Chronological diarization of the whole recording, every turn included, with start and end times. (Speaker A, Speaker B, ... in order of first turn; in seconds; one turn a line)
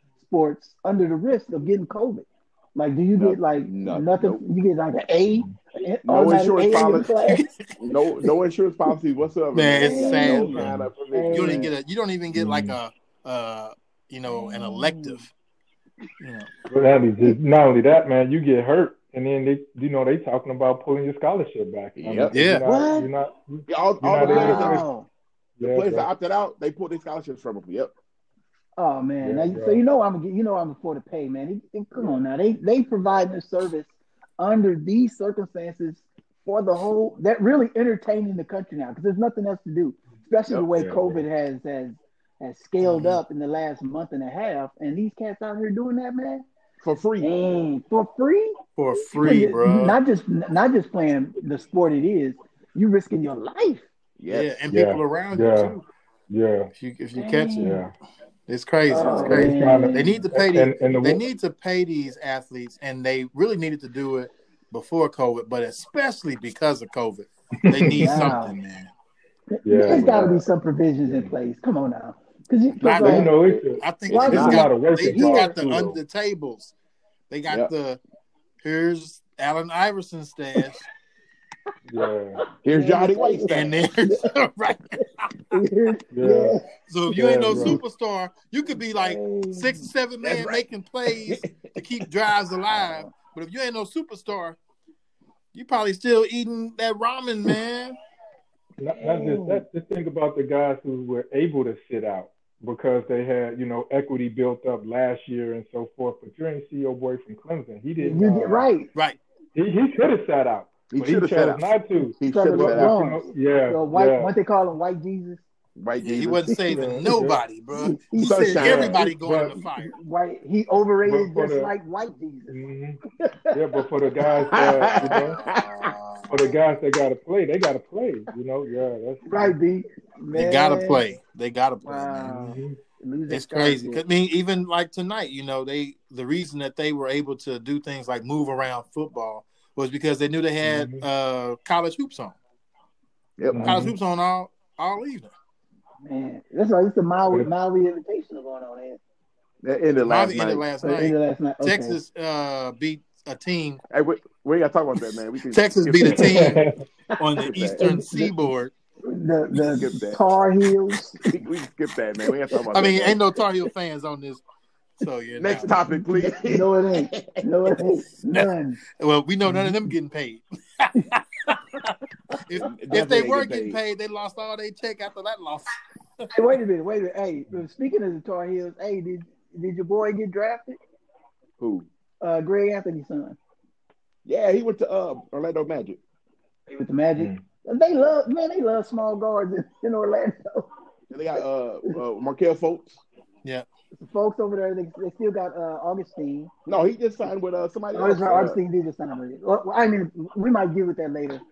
Speaker A: 0.2-7.5
Speaker B: 3.2-4.4
Speaker B: 6.0-7.1
Speaker B: 7.8-11.7
Speaker C: 9.5-10.7
Speaker A: 9.8-11.7
Speaker D: 10.6-10.9
Speaker C: 11.3-15.3
Speaker D: 12.3-12.8
Speaker A: 14.3-15.2
Speaker C: 16.2-16.5
Speaker D: 16.7-24.9
Speaker B: 22.0-22.3
Speaker C: 22.3-22.6
Speaker A: 22.6-23.1
Speaker B: 23.7-24.8
Speaker A: 24.2-25.1
Speaker D: 25.6-26.1
Speaker B: 25.6-27.9
Speaker A: 28.8-46.4
Speaker D: 29.2-29.8
Speaker D: 40.7-41.2
Speaker C: 42.8-43.2
Speaker B: 46.8-47.3
Speaker A: 47.2-53.9
Speaker C: 48.8-50.0
Speaker B: 54.2-54.5
Speaker C: 54.3-55.8
Speaker D: 54.7-55.8
Speaker D: 56.3-56.7
Speaker C: 56.8-57.7
Speaker A: 57.2-57.8
Speaker D: 57.6-57.9
Speaker C: 58.5-68.9
Speaker A: 58.9-60.1
Speaker D: 59.2-61.2
Speaker D: 67.7-68.3
Speaker A: 67.9-68.5
Speaker A: 69.5-73.3
Speaker D: 69.6-70.4
Speaker D: 71.0-71.3
Speaker C: 72.8-73.3
Speaker B: 72.9-74.6
Speaker D: 73.0-76.0
Speaker C: 73.8-76.7
Speaker A: 74.1-75.6
Speaker C: 77.3-78.0
Speaker C: 78.6-80.8
Speaker D: 81.9-82.4
Speaker B: 82.6-83.8
Speaker A: 82.7-84.3
Speaker C: 83.5-85.0
Speaker A: 85.0-86.6
Speaker D: 86.1-87.8
Speaker C: 86.9-94.6
Speaker A: 88.8-89.9
Speaker B: 90.2-91.8
Speaker A: 92.7-93.1
Speaker C: 95.5-98.0
Speaker D: 98.8-108.7
Speaker A: 98.9-99.6
Speaker A: 108.0-108.9
Speaker D: 109.5-114.3
Speaker B: 110.9-111.7
Speaker B: 112.2-112.9
Speaker A: 112.3-115.4
Speaker B: 115.8-116.4
Speaker C: 116.0-119.9
Speaker D: 116.7-117.4
Speaker A: 117.7-118.7
Speaker B: 118.2-119.0
Speaker D: 118.6-119.5
Speaker A: 119.7-122.6
Speaker D: 121.0-121.7
Speaker D: 122.5-123.0
Speaker A: 123.2-124.5
Speaker D: 123.5-125.4
Speaker B: 124.5-125.9
Speaker C: 124.9-126.4
Speaker D: 126.3-129.6
Speaker A: 129.2-131.1
Speaker C: 130.3-132.6
Speaker A: 131.8-134.0
Speaker D: 132.3-132.8
Speaker C: 133.3-142.4
Speaker D: 140.6-141.1
Speaker B: 143.4-143.9
Speaker D: 143.5-143.9
Speaker C: 143.6-145.3
Speaker A: 146.1-149.0
Speaker B: 149.6-150.6
Speaker C: 150.1-153.8
Speaker A: 150.8-152.0
Speaker B: 153.9-156.6
Speaker C: 155.5-156.6
Speaker D: 156.1-156.8
Speaker C: 157.2-158.7
Speaker B: 157.4-157.8
Speaker A: 157.7-158.3
Speaker A: 159.0-161.2
Speaker B: 159.5-160.2
Speaker B: 161.2-163.2
Speaker C: 162.7-164.4
Speaker C: 165.0-165.7
Speaker B: 165.4-167.4
Speaker A: 166.2-168.8
Speaker C: 169.0-171.6
Speaker D: 169.4-169.8
Speaker C: 172.4-175.7
Speaker B: 172.6-173.8
Speaker A: 176.3-180.8
Speaker B: 181.6-181.9
Speaker A: 182.2-183.4
Speaker B: 184.2-186.0
Speaker A: 186.7-190.7
Speaker D: 187.2-187.4
Speaker B: 191.1-193.0
Speaker A: 194.0-196.5
Speaker B: 196.7-198.6
Speaker A: 197.9-201.4